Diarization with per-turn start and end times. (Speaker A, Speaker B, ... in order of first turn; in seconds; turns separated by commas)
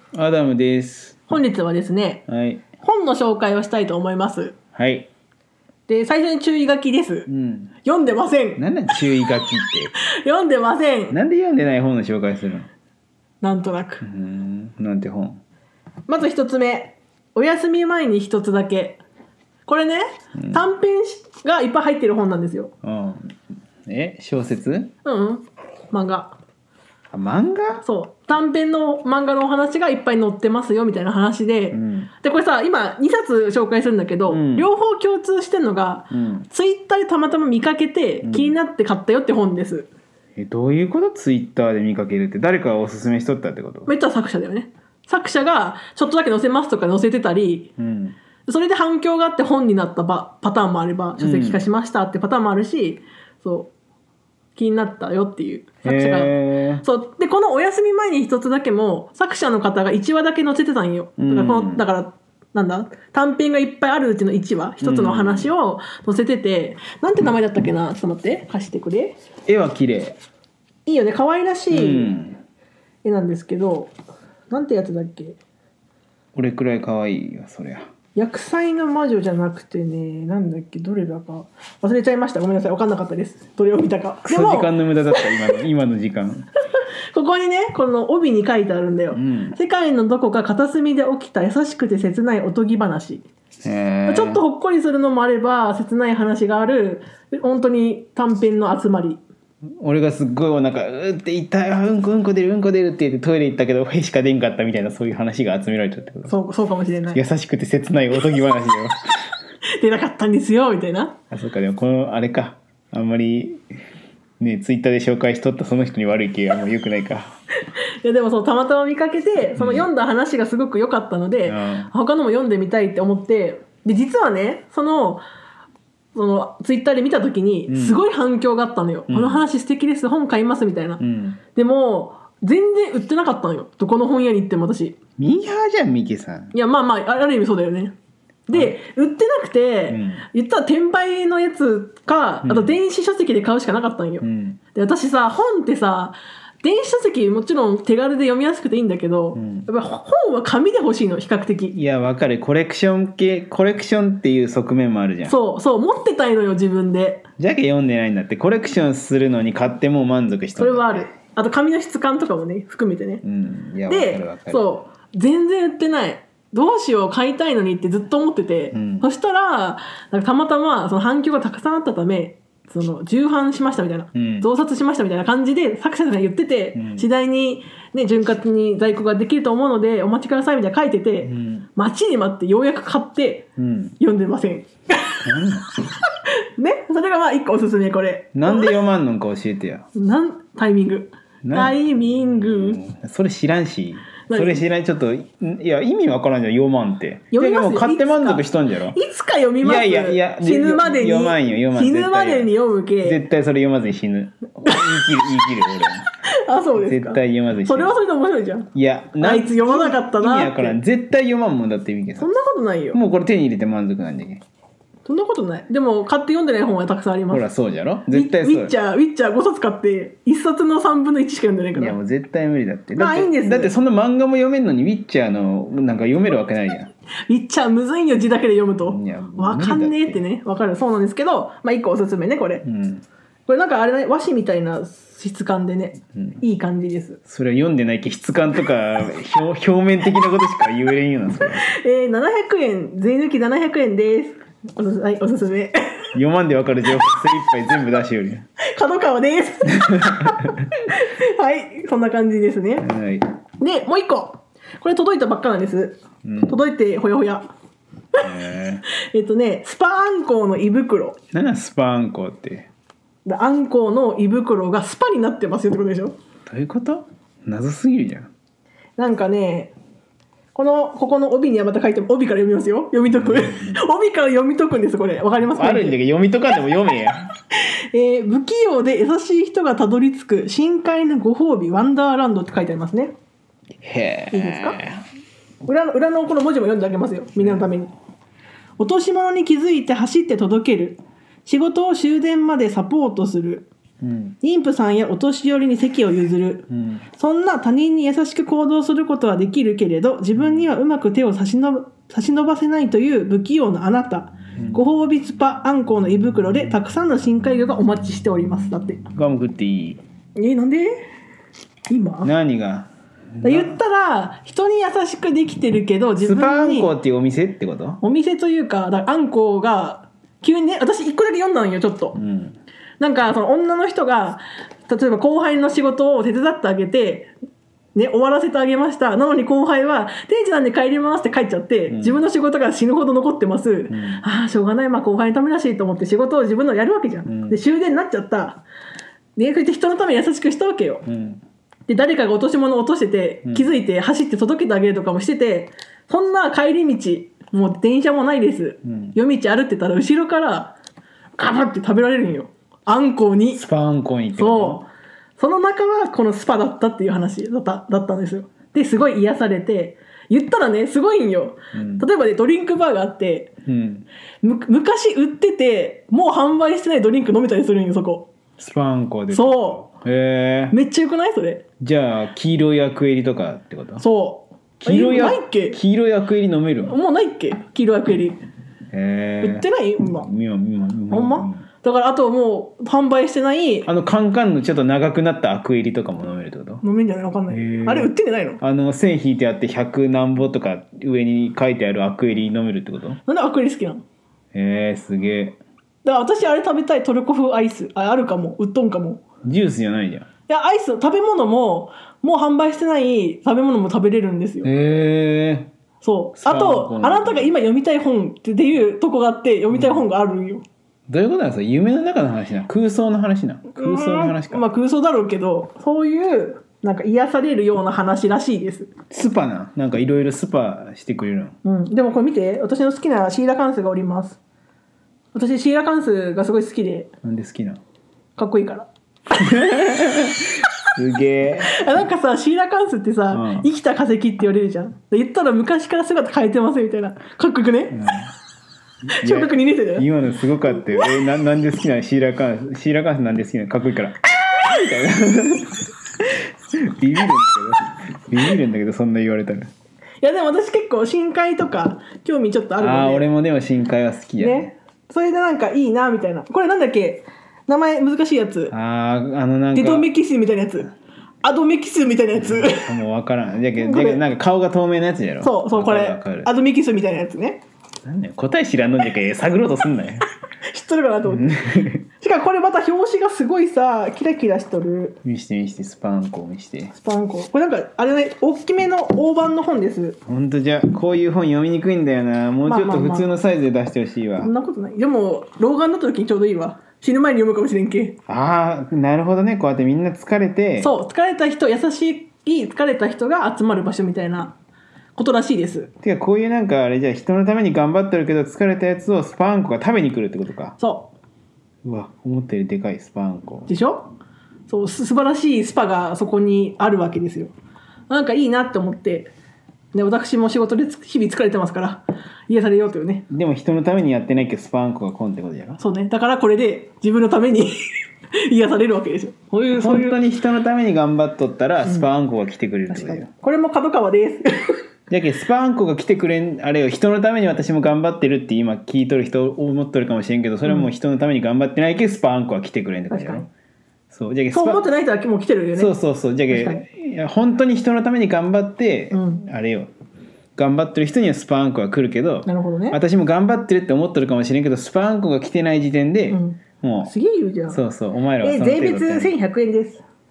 Speaker A: 0.1-1.3, Speaker B: 1.3-2.2, Speaker A: 2.3-2.6, Speaker B: 2.8-4.5, Speaker A: 4.7-5.1, Speaker B: 5.9-7.3, Speaker A: 7.3-7.7, Speaker B: 7.8-8.6, Speaker A: 8.6-9.9, Speaker B: 10.1-11.1, Speaker A: 11.1-12.7, Speaker B: 13.4-14.0, Speaker A: 14.0-15.4, Speaker B: 16.1-19.0, Speaker B: 19.6-22.7, Speaker A: 20.3-20.7, Speaker A: 22.8-24.9, Speaker B: 25.0-26.3, Speaker A: 27.1-27.8, Speaker B: 27.8-39.9, Speaker A: 31.7-32.1, Speaker A: 34.3-34.7, Speaker A: 36.1-36.5, Speaker A: 38.2-38.5, Speaker A: 40.4-43.9, Speaker B: 43.9-47.7, Speaker A: 47.8-48.1, Speaker B: 48.5-53.7, Speaker A: 51.2-51.6, Speaker B: 54.5-69.2, Speaker A: 55.8-56.8, Speaker A: 61.2-61.8, Speaker A: 64.8-65.5, Speaker A: 69.5-70.2, Speaker B: 70.8-72.2, Speaker A: 71.7-72.4, Speaker B: 73.0-73.9, Speaker B: 74.5-75.4, Speaker A: 76.3-77.8, Speaker B: 78.1-85.2, Speaker A: 84.3-86.5, Speaker B: 86.8-93.3, Speaker A: 89.1-89.6, Speaker A: 93.6-94.4, Speaker B: 94.1-99.2, Speaker A: 99.8-106.3, Speaker B: 106.2-107.2, Speaker A: 107.1-109.3, Speaker B: 109.7-111.1, Speaker A: 111.3-113.6, Speaker A: 114.4-117.3, Speaker B: 118.0-125.2, Speaker A: 119.6-119.9, Speaker A: 121.4-121.9, Speaker B: 126.1-131.0, Speaker A: 127.7-128.0, Speaker A: 129.1-129.4, Speaker A: 131.0-131.4, Speaker B: 131.5-135.0, Speaker A: 135.2-136.5, Speaker B: 136.5-137.9, Speaker B: 138.5-151.8, Speaker A: 139.9-140.2, Speaker A: 142.4-142.8, Speaker A: 144.2-144.6, Speaker A: 149.3-149.7, Speaker A: 151.7-155.4, Speaker B: 155.2-157.2, Speaker A: 157.4-161.1, Speaker B: 160.6-163.2, Speaker A: 163.2-164.6, Speaker B: 163.9-183.5, Speaker A: 168.7-169.1, Speaker A: 174.1-174.5, Speaker A: 176.7-177.1, Speaker A: 181.2-181.7, Speaker A: 183.6-184.0, Speaker B: 184.0-185.2, Speaker A: 185.2-185.7, Speaker B: 186.6-188.8, Speaker A: 188.3-189.8, Speaker B: 189.9-192.8, Speaker A: 191.4-199.0, Speaker B: 194.3-194.6, Speaker B: 197.3-203.2, Speaker A: 199.6-202.5, Speaker A: 203.0-206.1, Speaker B: 206.4-208.7, Speaker A: 206.8-207.9, Speaker A: 208.7-212.3, Speaker B: 209.2-210.8, Speaker B: 212.2-213.0, Speaker A: 212.9-214.4, Speaker B: 215.1-217.4, Speaker A: 217.3-218.7, Speaker B: 218.1-222.0, Speaker A: 221.7-226.9, Speaker B: 223.0-223.7, Speaker B: 227.3-232.6, Speaker A: 228.8-230.2, Speaker A: 232.6-233.0, Speaker B: 233.5-237.2, Speaker A: 237.2-241.7, Speaker B: 241.6-246.1, Speaker A: 246.1-248.4, Speaker B: 248.6-252.9, Speaker A: 249.8-250.1, Speaker A: 252.8-253.2, Speaker B: 253.6-257.5, Speaker A: 256.2-256.6, Speaker A: 258.2-258.8, Speaker B: 259.0-261.2, Speaker A: 261.3-262.7, Speaker B: 263.2-266.1, Speaker A: 266.5-268.3, Speaker B: 269.0-269.7, Speaker B: 270.5-276.0, Speaker A: 273.1-273.8, Speaker A: 275.5-277.2, Speaker B: 277.6-283.1, Speaker A: 283.8-285.0, Speaker B: 284.3-284.8, Speaker B: 285.6-287.9, Speaker A: 287.4-287.7, Speaker B: 288.8-293.7, Speaker A: 294.0-294.4, Speaker B: 294.4-309.0, Speaker A: 296.7-297.0, Speaker A: 309.1-310.0, Speaker B: 310.4-311.0, Speaker B: 311.9-312.3, Speaker A: 312.2-313.8, Speaker B: 313.4-316.9, Speaker A: 316.2-318.0, Speaker B: 318.0-322.2, Speaker A: 322.1-322.6, Speaker B: 323.0-327.3, Speaker B: 327.9-338.6, Speaker A: 331.9-332.2, Speaker A: 333.9-334.2, Speaker A: 337.2-337.6, Speaker B: 339.4-341.1, Speaker A: 341.1-341.4, Speaker B: 341.9-350.7, Speaker A: 348.8-349.2, Speaker B: 351.4-353.6, Speaker A: 353.5-354.8, Speaker B: 354.3-363.5, Speaker A: 361.7-362.1, Speaker A: 363.6-364.1, Speaker B: 364.4-368.3, Speaker A: 368.6-370.8, Speaker B: 369.3-369.9, Speaker B: 370.7-371.6, Speaker A: 371.8-374.0, Speaker B: 374.0-375.8, Speaker A: 374.8-376.9, Speaker B: 376.9-378.4, Speaker A: 378.9-381.6, Speaker B: 379.4-380.3, Speaker B: 381.1-383.9, Speaker A: 383.8-386.8, Speaker B: 386.8-388.6, Speaker A: 387.5-388.1, Speaker A: 388.6-393.2, Speaker B: 393.2-394.0, Speaker A: 394.5-395.6, Speaker B: 396.0-399.2, Speaker A: 399.4-400.3, Speaker B: 400.5-404.7, Speaker A: 404.6-405.7, Speaker B: 406.0-410.6, Speaker A: 406.4-407.5, Speaker A: 409.7-410.0, Speaker A: 411.1-414.6, Speaker B: 413.7-418.9, Speaker A: 419.1-421.6, Speaker B: 421.6-424.4, Speaker B: 425.3-427.1, Speaker A: 427.2-427.8, Speaker B: 428.4-428.9, Speaker A: 429.3-431.9, Speaker B: 431.7-437.9, Speaker A: 433.3-433.7, Speaker A: 437.9-438.3, Speaker A: 439.1-449.7, Speaker B: 439.2-440.1, Speaker B: 450.2-453.2, Speaker A: 452.8-454.7, Speaker B: 454.4-458.7, Speaker A: 458.7-460.1, Speaker B: 459.7-462.9, Speaker A: 462.4-466.5, Speaker B: 463.8-464.2, Speaker B: 465.4-467.6, Speaker A: 468.0-470.2, Speaker B: 470.7-471.6, Speaker A: 471.2-472.0, Speaker B: 472.2-475.2, Speaker A: 475.2-476.9, Speaker B: 476.9-480.2, Speaker A: 480.2-484.5, Speaker B: 482.6-483.3, Speaker B: 484.4-488.1, Speaker A: 488.3-490.9, Speaker B: 490.8-494.5, Speaker B: 495.1-495.9, Speaker A: 496.0-500.8, Speaker B: 500.8-501.1, Speaker A: 501.8-503.7, Speaker B: 503.7-504.1, Speaker B: 504.7-507.5, Speaker B: 508.1-509.3, Speaker B: 509.9-513.2, Speaker A: 513.3-515.8, Speaker B: 515.8-517.9, Speaker B: 518.4-520.2, Speaker A: 519.7-523.3, Speaker B: 522.9-524.8, Speaker A: 525.1-533.5, Speaker B: 533.1-533.5, Speaker A: 534.1-534.8, Speaker B: 534.5-535.9, Speaker A: 535.7-539.9, Speaker B: 536.5-536.8, Speaker B: 539.1-539.4, Speaker A: 540.5-547.1, Speaker B: 542.5-543.0, Speaker B: 546.3-547.8, Speaker A: 547.7-549.4, Speaker B: 548.4-550.0